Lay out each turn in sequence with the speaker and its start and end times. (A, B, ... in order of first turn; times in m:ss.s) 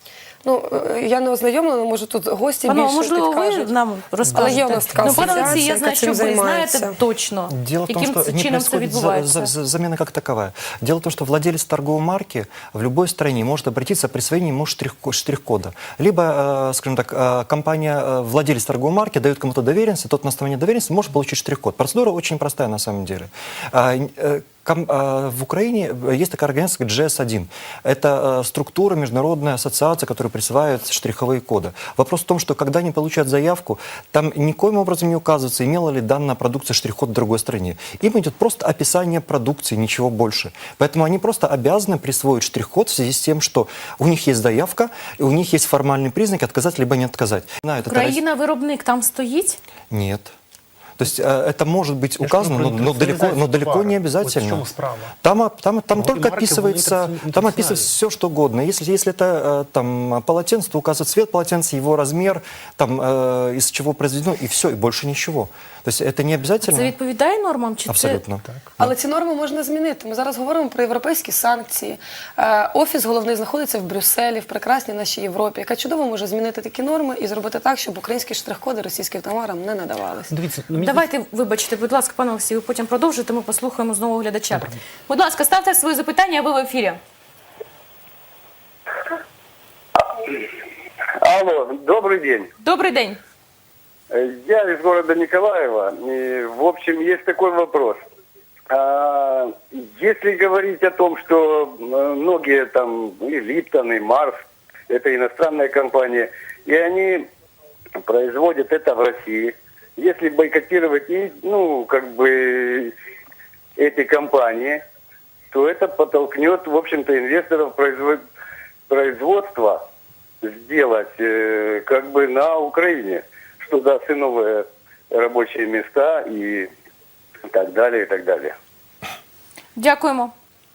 0:00.4-0:03.7 A
0:02.6-0:09.5 B
0:04.3-0:06.9 A
0:07.5-0:48.2 C
0:47.9-0:49.6 B
0:49.9-0:50.3 C
0:51.0-0:54.6 C
0:52.2-0:55.1 D
0:55.2-1:06.9 C
0:55.9-0:57.9 D
1:06.6-1:08.2 B
1:07.9-1:08.9 C
1:08.8-1:20.3 A
1:20.3-1:21.1 D
1:20.8-1:27.0 B
1:30.0-1:30.5 E
1:31.2-1:32.5 E
1:32.6-1:33.2 B
1:34.1-1:38.0 E
1:38.7-1:47.3 E
1:48.0-1:52.9 E
1:53.8-1:54.8 E
1:55.5-1:58.2 E
1:58.9-1:59.8 E
2:00.4-2:06.7 E
2:07.4-2:08.5 E
2:09.8-2:10.3 B